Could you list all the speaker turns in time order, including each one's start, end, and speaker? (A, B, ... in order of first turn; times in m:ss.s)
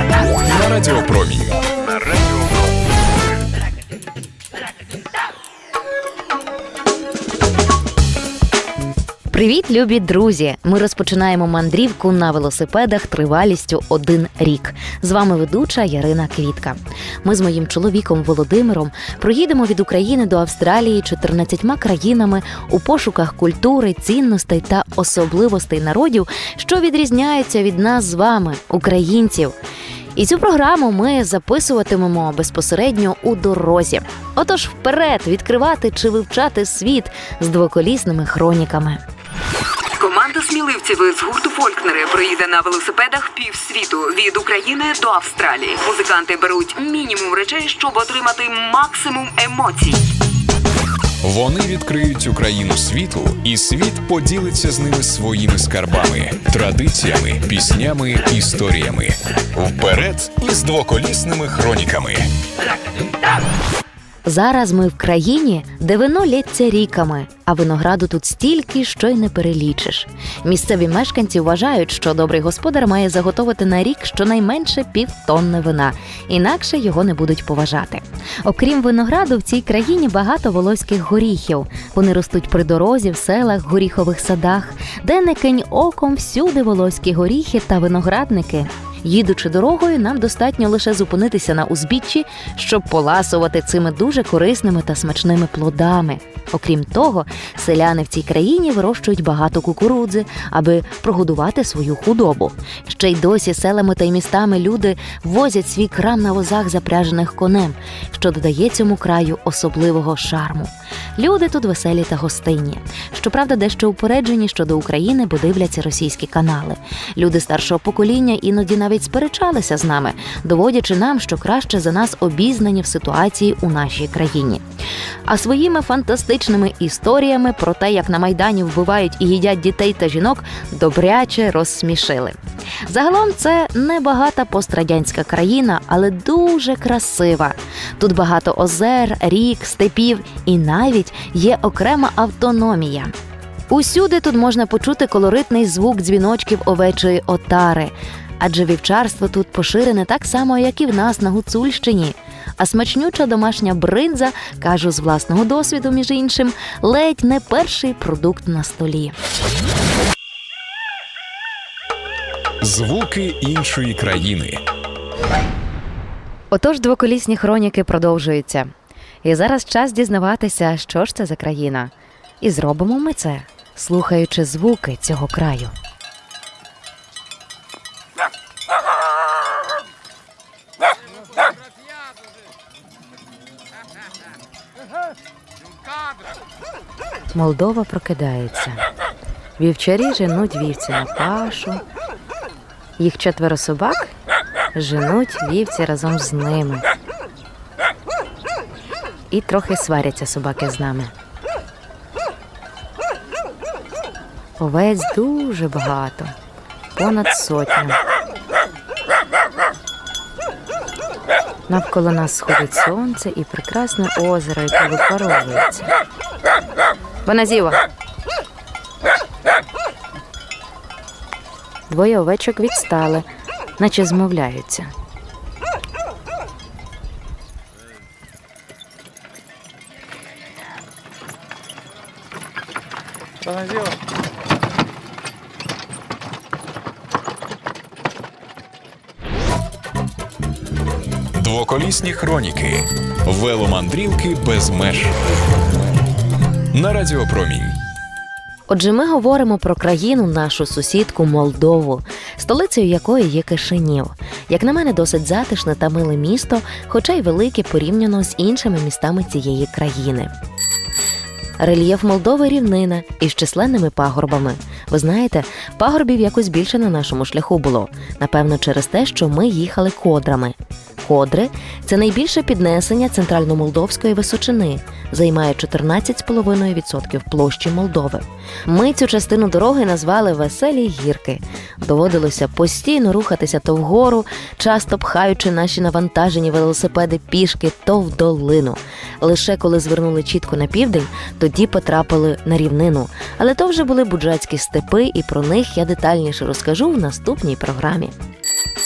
0:00.4-0:02.5 A
0:09.3-0:29.6 B
0:30.1-0:39.0 B
0:40.0-0:41.0 C
0:40.7-0:41.5 B
0:41.6-0:43.5 C
0:42.4-0:42.7 B
0:44.1-0:45.5 C
0:47.7-0:48.4 C
0:51.2-1:02.3 A
1:04.2-2:04.6 B
2:05.2-2:23.1 B
2:23.7-2:39.2 B
2:42.6-2:44.6 A
2:46.5-2:48.7 B
2:49.2-2:55.7 B
3:07.3-3:08.8 B
3:09.6-3:11.8 B
3:13.0-3:14.1 B
3:14.8-3:16.9 B
3:19.3-3:21.1 B
3:24.6-3:26.3 B
3:26.9-3:28.0 B
3:31.7-3:35.9 B
3:37.2-3:37.8 B
3:41.9-3:43.3 B
3:43.8-3:44.9 B
4:01.3-4:05.2 A
4:06.7-4:07.8 A
4:08.7-4:20.3 B
4:21.6-4:58.1 B